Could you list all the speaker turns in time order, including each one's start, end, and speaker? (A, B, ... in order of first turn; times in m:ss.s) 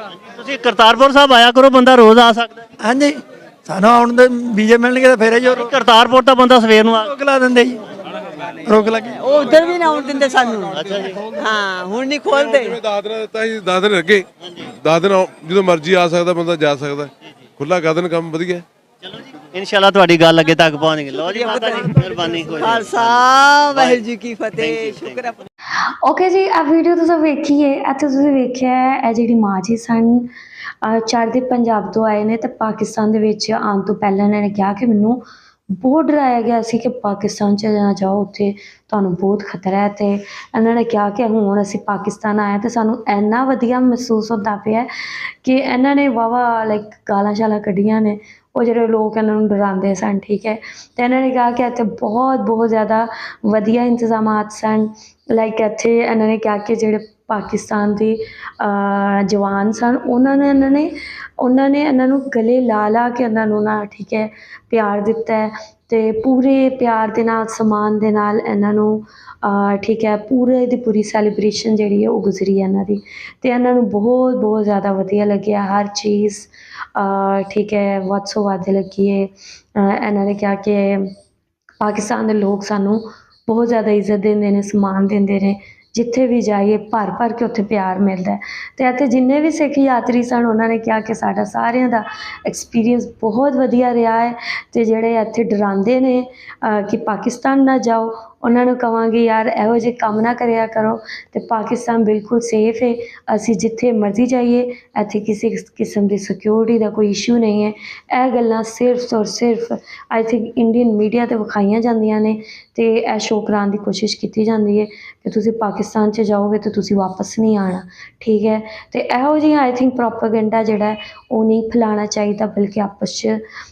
0:00.3-0:02.6 A
0:02.8-0:05.7 B
0:05.5-0:07.1 A
0:07.0-0:07.8 B
0:08.6-0:09.2 B
0:09.2-0:10.8 C
0:10.8-0:11.2 A
0:11.4-0:12.8 C
0:12.3-0:18.6 D
0:19.1-0:24.0 A
0:21.3-0:25.5 C
0:24.6-0:25.1 A
0:26.0-0:30.3 E
0:30.8-0:35.2 E
0:35.8-0:44.9 E
0:45.4-1:21.1 E
1:21.8-2:03.4 E